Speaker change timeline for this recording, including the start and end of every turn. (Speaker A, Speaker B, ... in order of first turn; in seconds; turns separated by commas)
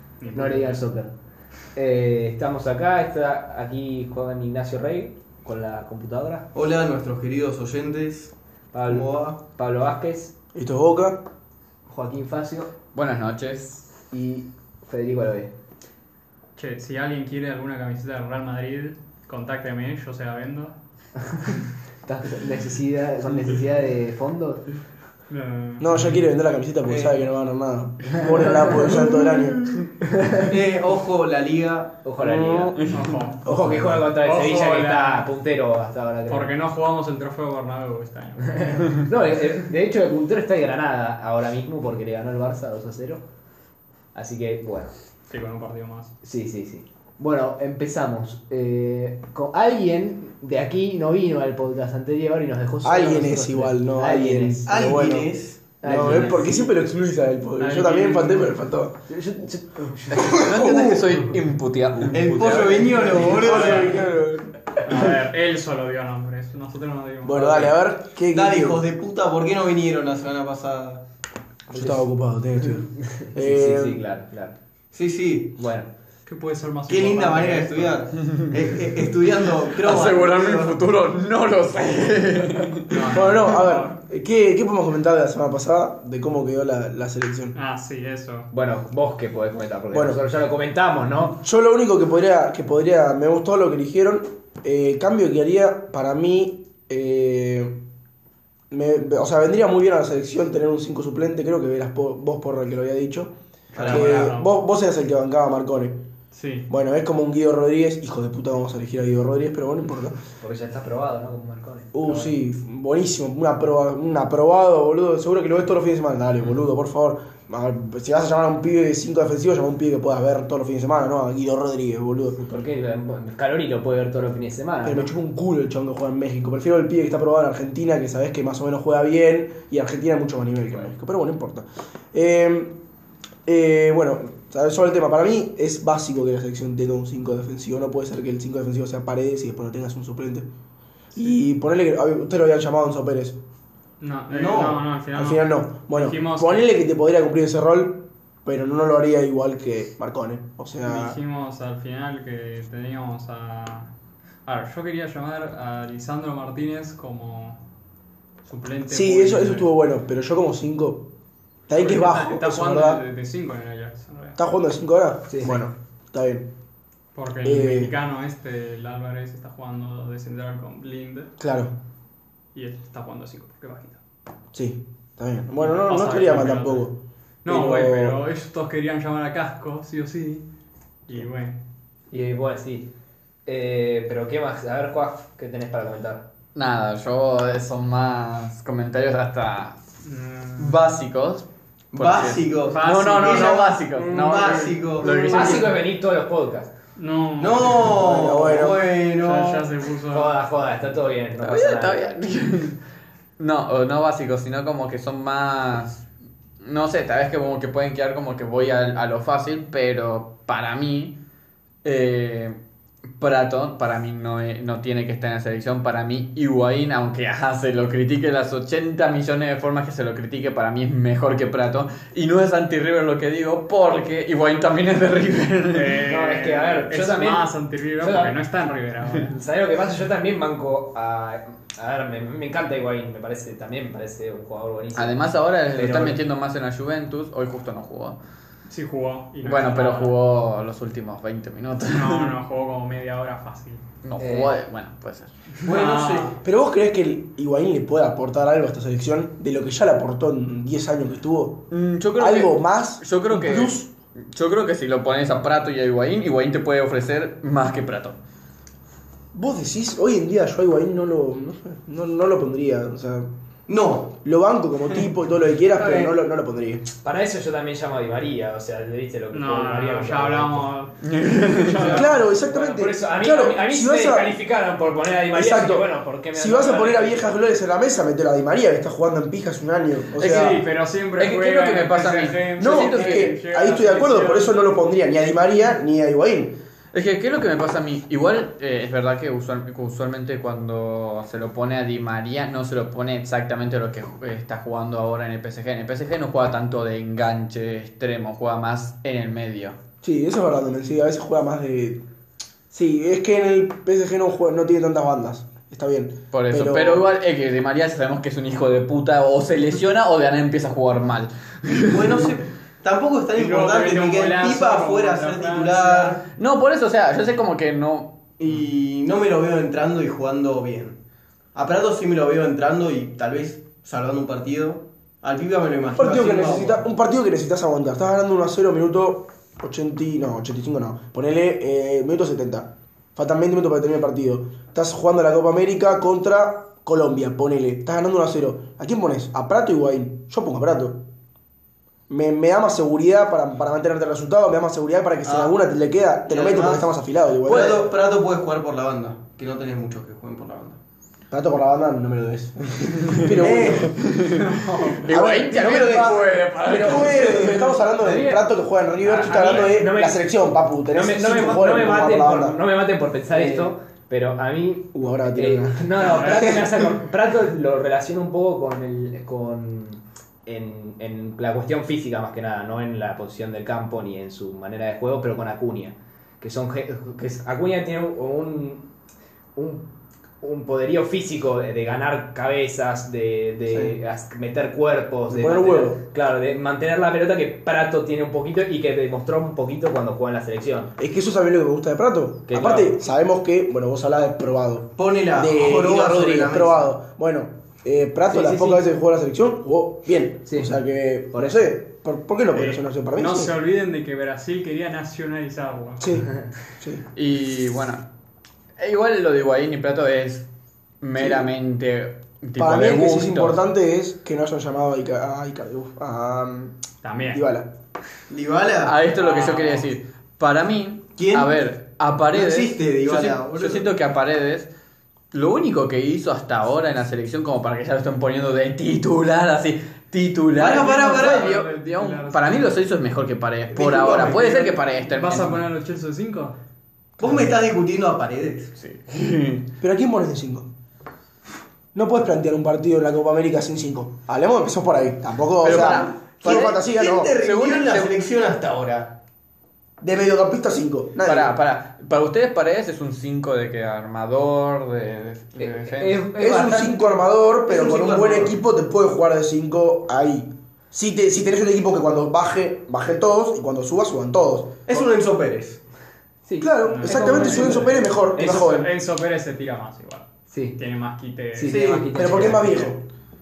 Speaker A: 0.2-0.8, Speaker B: 0.3-1.1, Speaker B: 1.8-6.5, Speaker C: 6.5-8.3, Speaker B: 8.7-10.3, Speaker C: 8.9-9.4, Speaker D: 10.5-11.2, Speaker B: 11.9-12.7, Speaker E: 12.9-13.9, Speaker B: 14.1-15.5, Speaker A: 16.6-20.8, Speaker B: 21.5-24.7, Speaker A: 25.3-26.0, Speaker D: 25.8-29.6, Speaker C: 26.9-27.2, Speaker E: 29.6-29.9, Speaker C: 30.4-32.4, Speaker B: 32.0-32.8, Speaker D: 32.2-32.7, Speaker E: 32.8-33.3, Speaker A: 32.9-33.4, Speaker D: 33.4-34.1, Speaker B: 33.5-36.6, Speaker A: 34.1-35.3, Speaker A: 36.3-39.0, Speaker B: 38.5-43.2, Speaker B: 44.1-44.9, Speaker A: 45.3-46.1, Speaker B: 46.2-54.7, Speaker D: 52.8-59.0, Speaker C: 54.7-55.7, Speaker B: 55.8-56.7, Speaker A: 57.6-58.6, Speaker B: 59.1-60.5, Speaker D: 60.2-61.0, Speaker E: 60.3-63.9, Speaker C: 62.1-64.0, Speaker D: 63.5-64.5, Speaker A: 63.5-64.0, Speaker A: 64.8-67.7, Speaker D: 67.2-68.8, Speaker C: 68.3-71.0, Speaker D: 71.7-74.0, Speaker B: 71.7-74.6, Speaker C: 74.9-75.6, Speaker B: 75.6-75.9, Speaker A: 76.3-78.0, Speaker C: 76.9-80.8, Speaker E: 78.2-78.7, Speaker E: 79.8-83.1, Speaker A: 82.9-84.0, Speaker D: 83.1-87.5, Speaker A: 87.5-88.5, Speaker B: 88.5-91.4, Speaker D: 89.9-90.2, Speaker D: 91.4-97.8, Speaker D: 98.7-106.0, Speaker B: 103.8-104.1, Speaker A: 103.8-104.5, Speaker A: 106.3-106.7, Speaker D: 106.7-110.2, Speaker B: 110.4-112.3, Speaker D: 111.9-122.4, Speaker B: 122.4-125.1, Speaker D: 124.8-132.8, Speaker D: 133.5-140.5, Speaker D: 141.1-143.4, Speaker A: 144.0-146.7, Speaker C: 144.3-144.8, Speaker D: 145.1-151.2, Speaker A: 150.8-153.9, Speaker A: 154.5-157.6, Speaker A: 158.4-159.7, Speaker D: 158.9-161.1, Speaker D: 161.7-163.0, Speaker A: 161.8-164.4, Speaker D: 164.4-166.5, Speaker B: 165.3-165.6, Speaker A: 167.1-171.3, Speaker D: 167.4-167.9, Speaker D: 171.4-171.8, Speaker A: 172.5-174.0, Speaker D: 174.5-178.2, Speaker A: 175.6-176.9, Speaker A: 177.4-180.4, Speaker A: 181.1-181.6, Speaker B: 182.1-182.9, Speaker B: 183.5-186.3, Speaker E: 186.6-189.8, Speaker A: 190.0-190.8, Speaker E: 190.6-195.8, Speaker C: 191.9-195.3, Speaker A: 192.7-195.5, Speaker B: 195.0-196.7, Speaker A: 197.0-198.0, Speaker C: 197.4-199.8, Speaker D: 197.8-198.9, Speaker A: 199.1-200.4, Speaker B: 200.1-202.2, Speaker E: 201.4-202.8, Speaker E: 203.4-206.1, Speaker E: 206.6-211.2, Speaker E: 211.8-212.6, Speaker E: 213.2-226.0, Speaker A: 225.7-229.3, Speaker B: 226.1-228.4, Speaker B: 229.3-236.2, Speaker E: 234.9-238.2, Speaker A: 238.7-240.2, Speaker E: 239.4-242.3, Speaker A: 241.8-243.9, Speaker E: 244.0-245.3, Speaker B: 244.2-244.6, Speaker C: 245.6-246.4, Speaker A: 245.6-246.4, Speaker D: 246.4-251.7, Speaker E: 251.7-253.8, Speaker D: 252.2-253.9, Speaker E: 254.3-258.2, Speaker D: 259.3-263.3, Speaker C: 263.7-264.1, Speaker D: 264.2-266.8, Speaker B: 265.7-266.2, Speaker B: 267.0-270.7, Speaker A: 269.3-272.3, Speaker E: 271.0-271.9, Speaker B: 271.9-277.4, Speaker D: 271.9-274.4, Speaker D: 275.3-280.6, Speaker E: 280.2-280.6, Speaker A: 280.2-284.6, Speaker E: 281.1-283.4, Speaker D: 282.6-286.6, Speaker E: 286.9-299.8, Speaker D: 300.0-302.0, Speaker D: 302.7-307.1, Speaker E: 306.3-312.3, Speaker C: 311.9-316.3, Speaker A: 313.4-316.2, Speaker E: 316.3-318.2, Speaker C: 318.4-321.0, Speaker C: 321.6-326.8, Speaker D: 325.9-341.0, Speaker D: 342.1-347.8, Speaker C: 345.2-345.5, Speaker C: 346.3-346.9, Speaker C: 347.4-350.8, Speaker E: 347.5-347.8, Speaker D: 351.3-354.0, Speaker E: 353.1-354.4, Speaker C: 353.4-353.9, Speaker A: 354.3-355.0, Speaker E: 354.9-357.8, Speaker D: 355.1-362.6, Speaker B: 358.0-358.4, Speaker E: 359.1-359.8, Speaker B: 359.1-360.3, Speaker B: 360.9-378.9, Speaker D: 363.3-363.7, Speaker D: 364.9-366.9, Speaker A: 366.0-366.6, Speaker B: 379.6-379.9, Speaker B: 380.4-390.9, Speaker D: 383.7-384.0, Speaker D: 385.3-386.0, Speaker D: 391.0-403.5, Speaker B: 392.5-393.0, Speaker C: 395.0-396.9, Speaker B: 398.3-398.9, Speaker B: 400.5-400.7, Speaker B: 401.3-401.7, Speaker A: 402.5-406.0, Speaker D: 406.0-407.0, Speaker E: 407.1-408.0, Speaker E: 408.8-410.5, Speaker E: 411.0-413.6, Speaker D: 411.2-411.5, Speaker D: 412.6-416.8, Speaker A: 417.0-417.4, Speaker D: 417.3-417.7, Speaker C: 418.3-419.0, Speaker E: 418.8-424.7, Speaker A: 419.1-419.9, Speaker C: 421.2-421.6, Speaker C: 422.3-423.9, Speaker E: 425.3-435.6, Speaker C: 430.6-431.5, Speaker A: 430.7-432.8, Speaker C: 433.7-434.5, Speaker A: 433.9-436.6, Speaker C: 437.2-438.7, Speaker E: 437.2-437.5, Speaker E: 438.8-439.7, Speaker D: 439.8-440.7, Speaker D: 441.9-447.4, Speaker E: 445.6-446.8, Speaker C: 445.7-449.1, Speaker E: 447.4-448.2, Speaker D: 450.0-451.5, Speaker E: 451.2-456.3, Speaker B: 455.6-458.6, Speaker D: 456.4-464.8, Speaker C: 464.9-465.8, Speaker B: 466.4-468.8, Speaker D: 466.6-468.9, Speaker A: 466.9-472.9, Speaker B: 470.5-470.8, Speaker B: 471.6-472.9, Speaker C: 471.6-472.1, Speaker D: 472.1-473.0